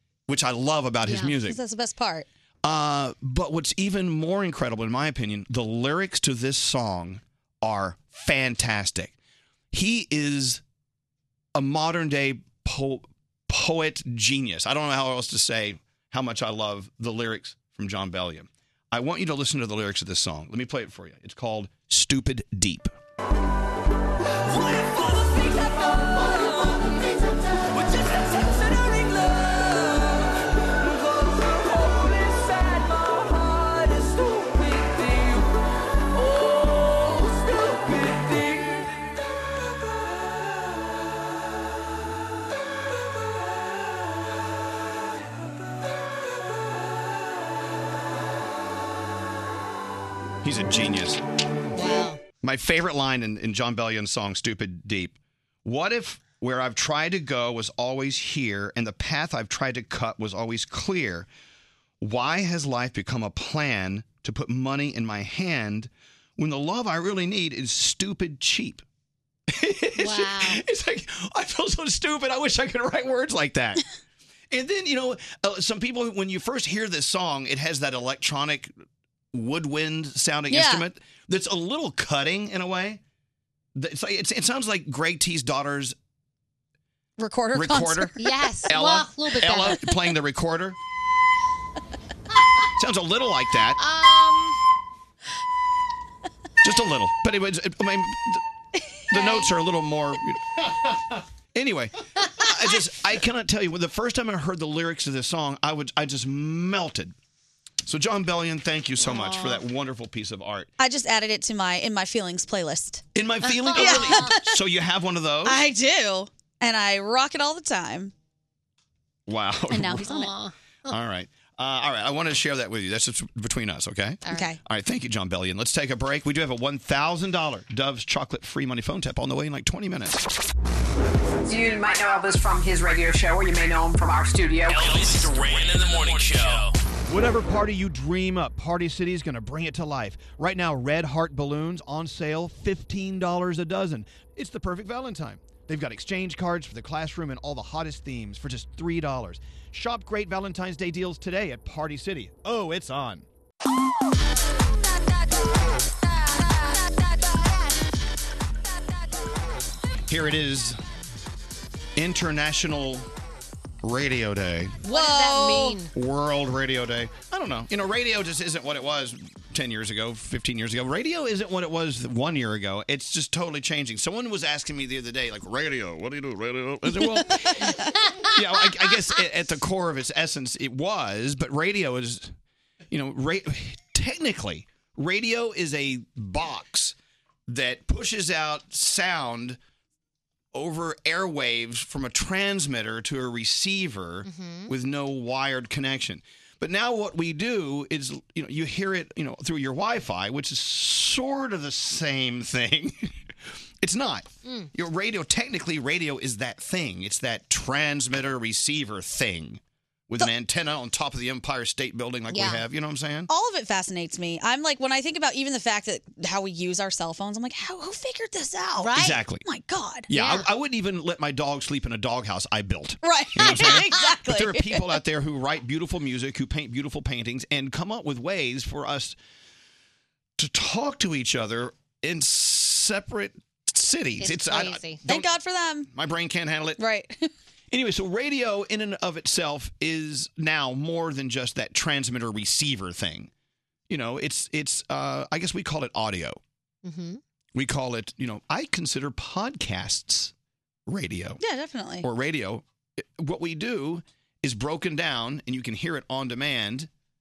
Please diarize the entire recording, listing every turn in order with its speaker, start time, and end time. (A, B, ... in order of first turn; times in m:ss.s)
0:00.3-0:01.6 A
0:01.1-0:01.4 B
0:01.4-0:02.3 C
0:02.6-0:09.1 A
0:09.7-0:10.6 A
0:11.6-0:22.9 A
0:50.4-0:51.2 A
0:51.7-0:52.2 B
0:52.4-1:01.3 A
1:02.0-1:08.8 A
1:09.5-1:13.8 A
1:10.0-1:10.6 B
1:14.5-1:18.7 A
1:19.3-1:23.0 A
1:20.5-1:20.8 C
1:23.8-1:25.9 A
1:27.2-1:28.3 C
1:27.5-1:28.1 A
1:28.2-1:29.8 B
1:28.6-1:30.8 A
1:29.7-1:29.9 C
1:32.8-1:33.8 A
1:33.8-1:34.6 B
1:36.6-1:38.4 A
1:39.1-1:40.9 A
1:41.6-1:47.1 A
1:47.8-1:50.7 A
1:49.0-1:49.6 B
1:50.8-1:53.0 C
1:53.1-1:55.6 A
1:53.6-1:54.3 B
1:53.7-1:54.5 C
1:55.4-1:58.1 C
1:59.3-2:00.1 A
1:59.7-2:00.3 C
2:00.0-2:00.9 B
2:00.9-2:10.3 A
2:04.3-2:04.6 C
2:11.4-2:15.1 D
2:14.7-2:16.8 E
2:17.1-2:33.3 A
2:36.5-2:37.6 B
2:40.1-2:40.8 A
2:42.0-2:43.1 A
2:43.8-2:44.8 A
2:44.8-2:45.9 B
2:44.9-2:45.8 C
2:45.9-3:02.3 A
2:57.0-2:57.9 C
2:58.0-2:58.4 B
3:02.9-3:07.0 A
3:07.5-3:09.6 A
3:10.5-3:23.1 A
3:14.2-3:14.7 B
3:23.8-3:33.3 A
3:24.4-3:24.7 B
3:32.3-3:32.6 B
3:33.3-3:40.4 C
3:38.8-3:39.2 B
3:39.0-3:39.4 A
3:40.1-3:49.2 A
3:43.0-3:45.0 C
3:50.4-3:55.3 A
3:54.2-3:55.0 B
3:55.1-3:55.9 C
3:55.9-3:56.8 A
3:56.8-3:57.3 C
3:57.7-4:03.3 A
4:03.9-4:06.4 A
4:06.8-4:07.2 B
4:07.5-4:10.3 A
4:10.8-4:11.4 A
4:11.4-4:12.1 C
4:12.0-4:16.9 A